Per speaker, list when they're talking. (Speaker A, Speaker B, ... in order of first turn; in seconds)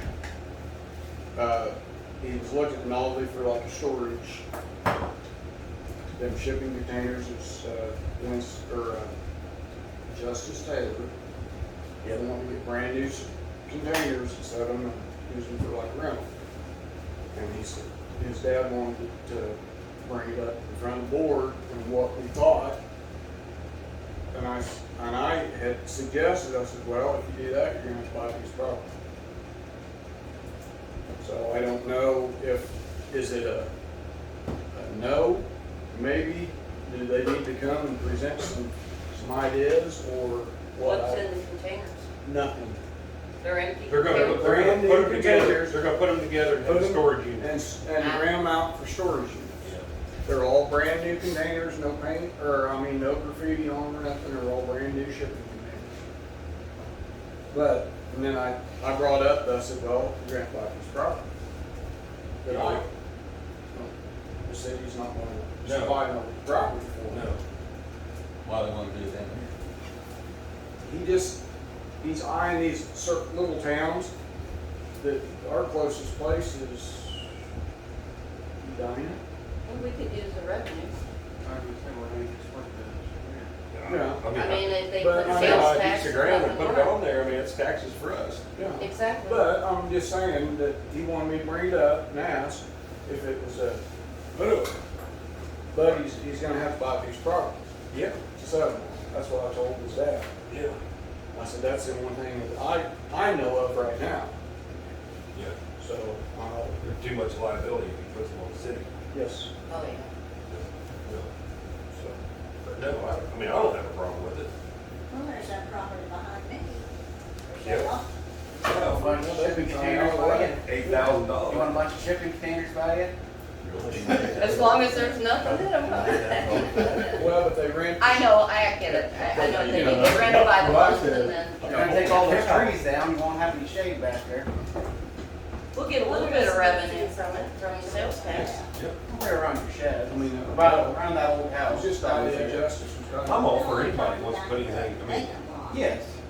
Speaker A: 1.4-4.4, 6.2-9.1, 10.1-11.1, 12.0-16.3, 17.3-22.8, 24.3-28.9, 31.2-33.7, 34.7-41.2, 42.2-42.8, 44.0-45.8, 46.5-49.7, 50.2-55.9, 57.5-61.2, 62.4-62.9, 64.5-67.3, 70.8-71.4, 72.0-74.1, 75.0-77.3, 78.6-79.2, 83.8-84.3, 85.0-85.8, 88.5-93.8, 95.7-97.6, 98.2-100.3, 101.3-104.3, 105.8-106.8, 109.1-109.5, 118.7-120.6, 127.1-130.5, 140.1-141.0, 141.7-143.7
Speaker B: 40.8-42.1, 43.4-44.6, 48.0-48.4, 79.7-81.0, 84.3-87.0, 88.8-89.6, 109.7-110.1, 124.3-127.3, 128.0-132.5, 135.7-138.6
Speaker C: 43.9-47.5, 62.5-62.8, 65.7-66.0, 67.1-67.4, 83.7-88.4, 94.3-94.8, 97.9-98.2, 100.5-100.8, 106.8-108.9, 110.5-111.3, 112.0-114.5, 117.6-118.0, 118.7-119.0, 120.6-121.8, 131.7-132.7, 143.2-145.4
Speaker D: 68.5-69.5, 123.6-127.3, 129.3-131.4
Speaker E: 81.4-83.5, 118.7-123.1, 131.6-134.5, 139.1-142.7, 145.7-146.1
Speaker F: 115.1-116.9, 117.5-118.1, 136.0-138.7, 143.4-145.8